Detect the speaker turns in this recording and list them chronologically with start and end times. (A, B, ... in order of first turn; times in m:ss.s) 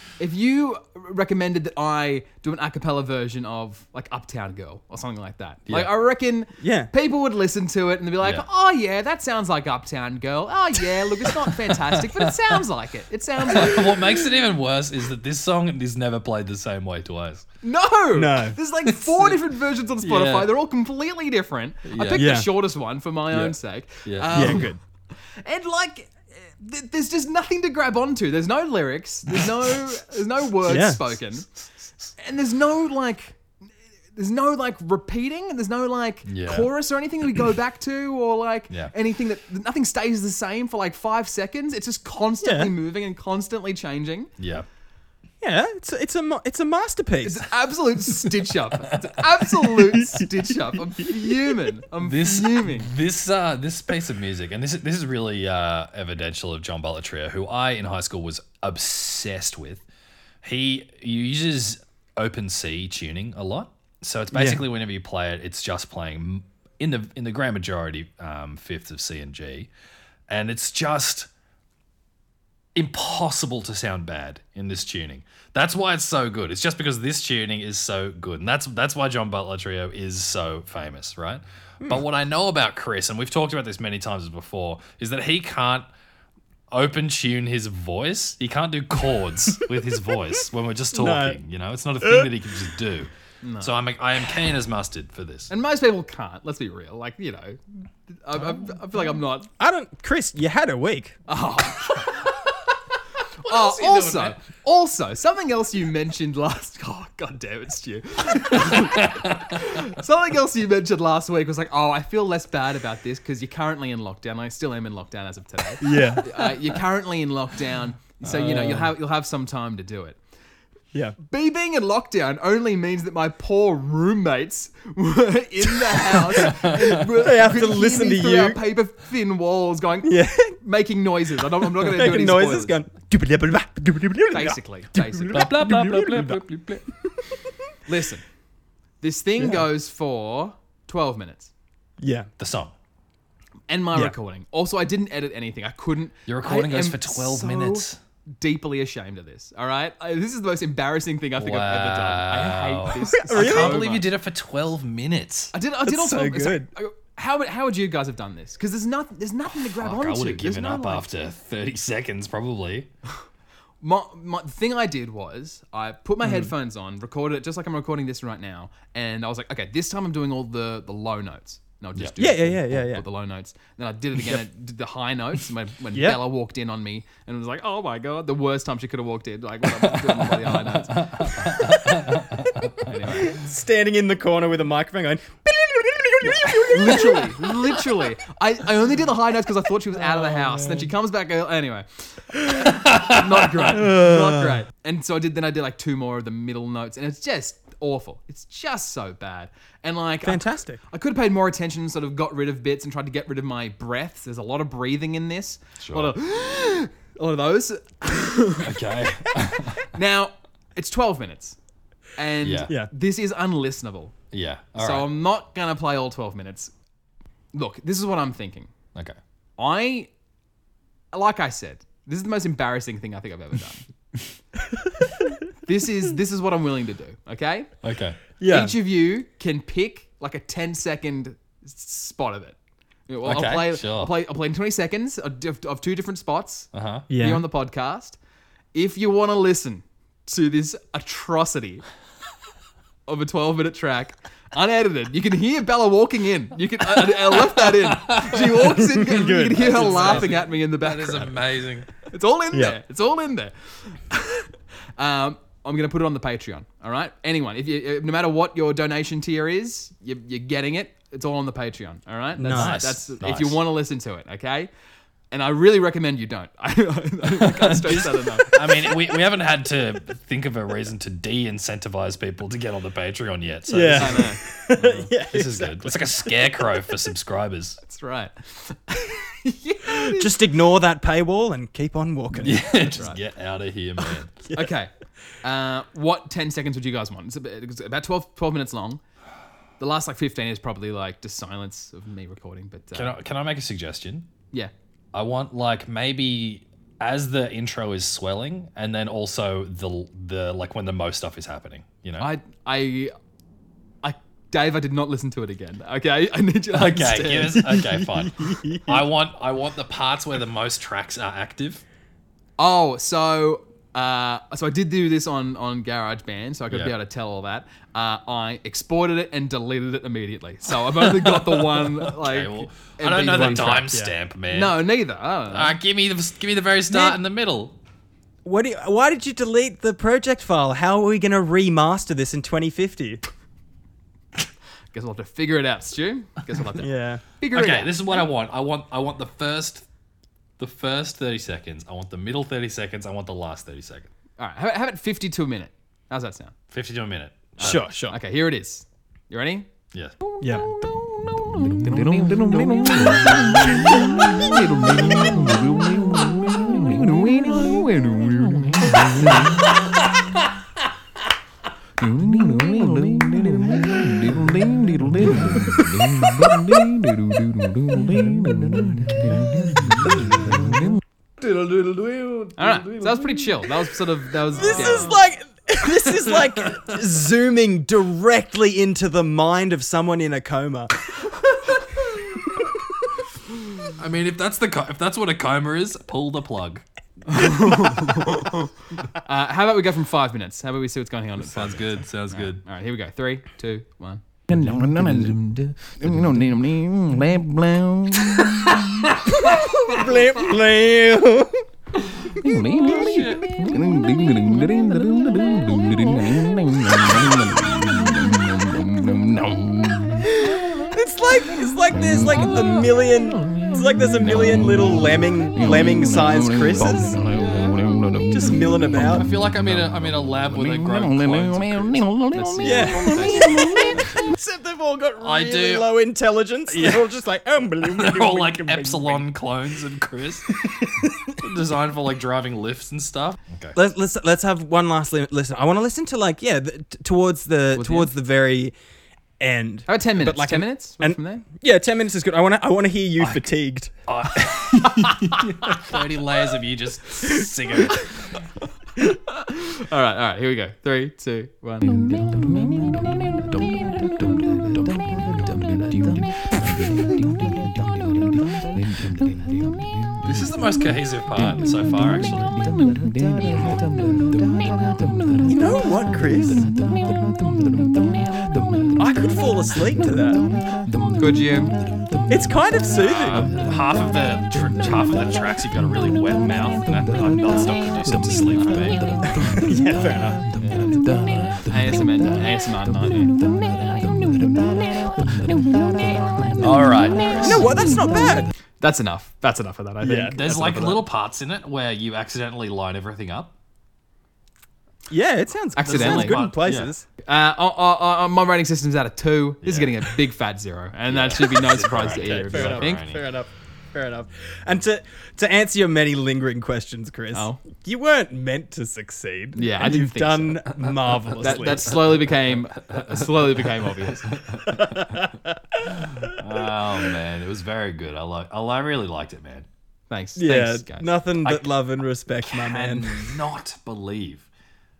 0:00.2-0:14.0 A
0:06.6-0:06.9 B
0:11.3-0:12.3 C
0:13.5-0:17.4 C
0:17.6-0:24.8 A
0:18.1-0:18.6 B
0:18.9-0:19.4 C
0:20.0-0:20.5 C
0:21.8-0:22.3 C
0:22.1-0:22.5 B
0:23.3-0:24.6 C
0:24.3-0:24.8 B
0:25.4-0:31.5 A
0:30.6-0:31.2 B
0:32.2-0:33.4 A
0:34.1-0:44.3 A
0:36.2-0:36.7 C
0:42.4-0:42.7 B
0:44.4-0:44.7 C
0:45.4-0:47.5 B
0:47.2-0:52.9 A
0:52.0-0:59.8 C
1:00.4-1:09.7 C
1:04.3-1:04.6 B
1:10.3-1:11.3 C
1:12.7-1:25.9 C
1:26.7-1:33.1 C
1:30.9-1:31.4 B
1:32.0-1:32.3 B
1:33.4-1:33.7 A
1:33.6-1:35.5 C
1:35.5-1:39.5 A
1:39.6-1:41.2 B
1:41.3-1:42.4 A
1:43.4-2:00.2 A
1:43.4-1:44.4 C
1:48.5-1:49.6 C
1:55.8-1:56.3 B
1:58.3-1:58.8 C
2:01.2-2:12.8 A
2:05.9-2:06.5 B
2:06.5-2:06.8 C
2:07.0-2:08.6 B
2:10.0-2:10.6 B
2:11.7-2:16.4 B
2:14.3-2:15.4 A
2:15.3-2:16.8 C
2:17.8-2:18.2 A
2:19.0-2:21.5 A
2:19.4-2:19.6 B
2:22.0-2:22.3 B
2:22.4-2:22.7 C
2:23.7-2:27.8 A
2:26.2-2:28.0 C
2:28.4-2:34.0 A
2:31.4-2:35.5 C
2:33.0-2:33.8 B
2:35.5-2:41.1 A
2:35.8-2:36.7 B
2:39.6-2:42.9 C
2:43.8-3:01.5 A
2:46.2-2:46.5 B
2:52.2-2:53.0 B
2:55.9-2:56.2 B
2:59.8-3:03.0 C
3:02.8-3:03.4 A
3:03.2-3:07.8 B
3:06.4-3:28.7 A
3:12.6-3:13.7 C
3:13.8-3:14.6 B
3:20.2-3:20.8 B
3:25.8-3:26.1 C
3:28.6-3:29.8 C
3:29.9-3:31.6 A
3:32.2-3:34.1 A
3:32.4-3:32.7 C
3:34.3-3:35.1 C
3:34.8-3:36.7 A
3:37.5-3:38.7 A
3:39.6-3:40.1 A
3:41.1-3:43.8 A
3:45.6-3:47.7 A
3:47.8-3:48.2 C
3:48.4-3:48.7 B
3:48.4-3:52.6 A
3:53.1-3:58.2 A
3:53.2-3:54.1 C
3:56.7-3:57.0 C
3:57.1-3:57.4 B
3:58.7-4:01.8 A
4:03.1-4:11.3 A
4:07.6-4:08.6 C
4:08.7-4:10.3 B
4:09.6-4:11.9 C
4:12.0-4:24.7 A
4:22.4-4:22.8 B
4:22.5-4:23.6 C
4:25.3-4:28.6 A
4:27.4-4:34.4 C
4:33.7-4:36.5 B
4:34.0-4:35.1 A
4:35.2-4:37.8 C
4:37.8-4:40.3 A
4:40.0-4:42.6 B
4:42.3-4:44.3 C
4:42.8-4:43.2 A
4:44.5-4:44.9 A
4:45.4-4:49.0 A
4:49.8-4:53.1 A
4:52.9-4:54.3 C
4:55.1-5:02.3 C
5:02.2-5:03.1 A
5:04.0-5:07.6 A
5:06.7-5:11.8 C
5:07.6-5:09.0 B
5:12.6-5:23.9 A
5:21.0-5:24.8 C
5:23.4-5:24.1 B
5:24.5-5:25.8 A
5:25.5-5:27.8 C
5:28.4-5:33.2 B
5:34.9-5:38.1 A
5:36.8-5:37.2 B
5:37.5-5:39.8 C
5:40.6-5:44.1 C
5:44.4-5:46.5 A
5:46.7-5:47.8 C
5:47.6-5:48.2 B
5:47.6-5:49.7 A
5:49.9-5:50.2 C
5:50.4-5:50.7 B
5:50.5-5:59.7 A
5:53.8-5:54.1 B
5:59.7-6:00.4 C
6:02.0-6:10.8 A
6:10.1-6:10.4 C
6:11.4-6:13.5 C
6:12.6-6:15.2 A
6:14.5-6:21.6 B
6:16.1-6:17.0 C
6:22.1-6:22.7 B
6:24.0-6:26.8 C
6:27.3-6:28.6 A
6:29.2-6:38.8 A
6:31.4-6:32.6 C
6:39.3-6:40.2 C
6:39.4-6:41.6 B
6:42.4-6:50.2 A
6:42.7-6:43.7 C
6:50.4-6:57.2 B
6:58.2-6:59.3 B
6:59.0-7:02.2 C
7:02.3-7:04.3 A
7:02.6-7:09.2 B
7:03.4-7:03.8 C
7:05.2-7:05.9 C
7:06.7-7:07.0 C
7:07.8-7:13.8 C
7:10.9-7:11.2 B
7:13.7-7:18.7 B
7:17.7-7:18.1 A
7:19.4-7:23.9 B
7:19.9-7:21.4 A
7:23.2-7:23.4 C
7:24.1-7:28.4 C
7:29.0-7:39.7 A
7:40.2-7:42.6 C
7:42.8-7:45.0 A
7:45.4-7:46.6 B
7:49.0-7:50.5 B
7:51.2-7:51.8 A
7:52.3-7:53.5 B
7:53.0-7:59.5 C
7:59.4-8:00.5 B
8:00.6-8:01.5 C
8:01.5-8:03.4 A
8:06.6-8:07.8 C
8:07.4-8:08.5 B
8:08.8-8:11.0 A
8:10.0-8:10.4 B
8:10.3-8:13.5 C
8:15.1-8:17.0 B
8:15.8-8:16.5 A
8:15.8-8:16.9 C
8:17.2-8:23.0 A
8:19.6-8:20.0 C
8:21.1-8:23.3 C
8:22.4-8:32.2 B
8:27.3-8:27.6 A
8:29.5-8:30.7 A
8:31.0-8:35.1 C
8:31.3-8:34.8 A
8:35.0-8:35.2 B
8:35.8-8:36.4 B
8:36.3-8:39.7 C
8:40.1-8:41.5 A
8:40.4-8:43.3 B
8:42.4-8:44.5 C